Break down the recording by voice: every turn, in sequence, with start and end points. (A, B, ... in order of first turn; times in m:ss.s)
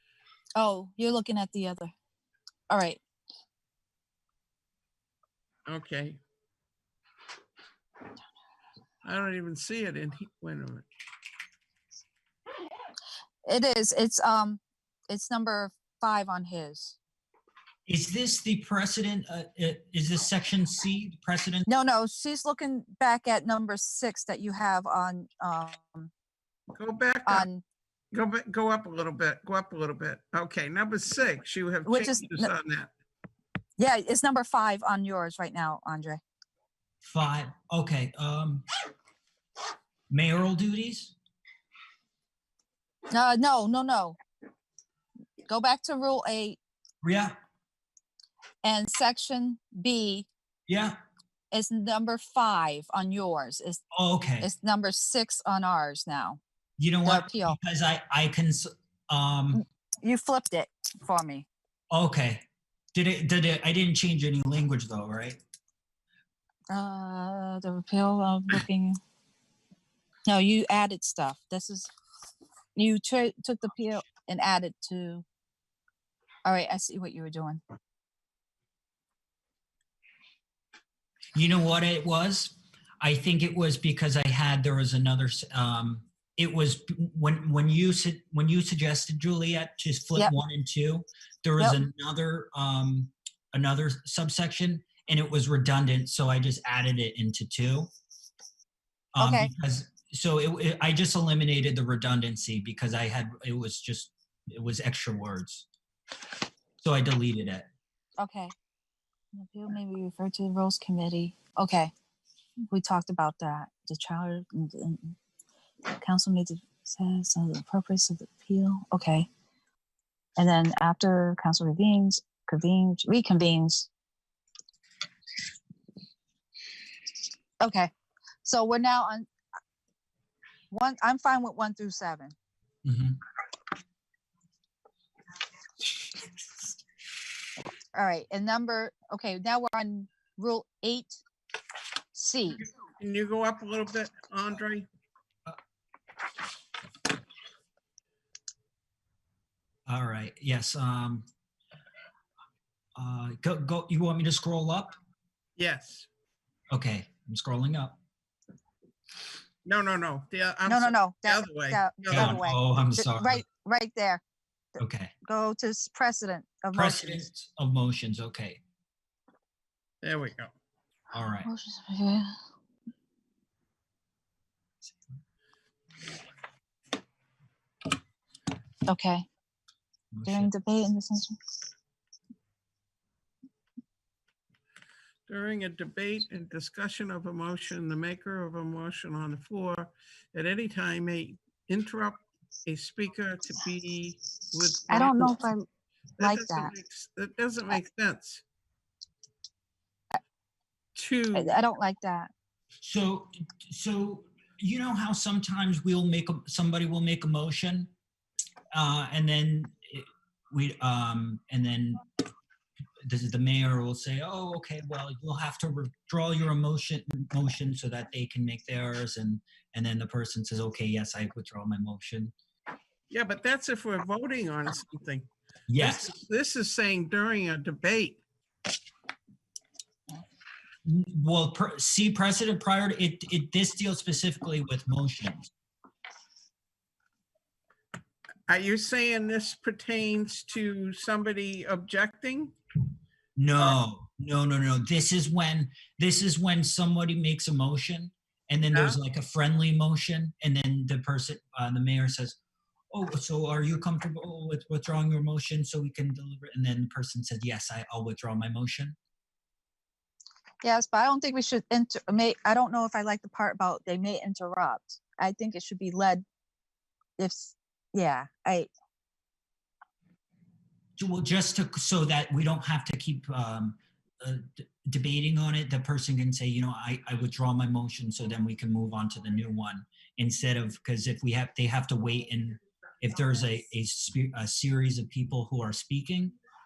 0:00.5-0:01.9 A
0:02.7-0:03.0 A
0:05.7-0:06.2 B
0:09.0-0:10.9 B
0:13.4-0:17.0 A
0:17.9-0:21.7 C
0:21.7-0:26.1 A
0:26.8-0:27.5 B
0:27.2-0:27.6 A
0:28.1-0:32.9 B
0:31.8-0:32.5 A
0:33.8-0:36.2 A
0:37.0-0:38.6 C
0:40.1-0:41.1 C
0:43.1-0:44.2 A
0:45.5-0:46.6 A
0:47.0-0:47.3 C
0:48.6-0:50.3 A
0:50.7-0:51.0 C
0:51.5-0:53.8 A
0:53.9-0:54.5 C
0:54.4-0:56.4 A
0:56.8-0:59.6 C
0:57.0-0:57.6 A
0:59.5-1:01.5 A
1:01.9-1:05.4 C
1:06.7-1:09.0 A
1:10.2-1:11.9 A
1:12.7-1:15.2 A
1:16.4-1:17.6 A
1:21.3-1:37.9 C
1:39.1-1:45.6 C
1:39.2-1:39.5 A
1:46.8-1:47.7 C
1:48.2-1:48.5 A
1:49.3-1:51.9 A
1:52.7-1:55.2 A
1:55.9-1:59.3 A
2:00.4-2:03.9 A
2:07.6-2:07.9 A
2:08.4-2:09.3 A
2:10.7-2:12.3 A
2:12.8-2:13.2 C
2:17.9-2:21.2 A
2:22.1-2:22.6 A
2:23.0-2:24.9 B
2:29.9-2:31.3 C
2:33.0-2:34.9 C
2:35.6-2:36.1 B
2:36.7-2:38.0 C
2:39.6-2:42.4 B
2:40.7-2:44.2 A
2:42.1-2:43.4 C
2:44.8-2:45.1 C
2:45.2-2:47.2 A
2:46.7-2:48.6 C
2:50.0-2:50.5 B
2:51.1-2:51.5 C
2:51.4-2:52.4 A
2:58.8-2:59.3 A
3:00.1-3:00.5 C
3:00.2-3:01.4 A
3:05.3-3:15.4 B
3:14.9-3:15.6 A
3:16.2-3:18.4 B
3:16.2-3:16.7 A
3:21.0-3:21.6 B
3:21.3-3:22.3 A
3:22.8-3:27.9 C
3:28.7-3:32.0 C
3:33.0-3:42.3 C
3:43.1-3:48.2 B
3:45.7-3:46.1 C
3:50.8-3:55.5 C
3:58.5-4:02.5 B
4:03.4-4:12.4 C
4:08.7-4:09.0 B
4:12.9-4:19.0 C
4:20.6-4:26.2 A
4:27.2-4:28.7 A
4:31.0-4:46.4 C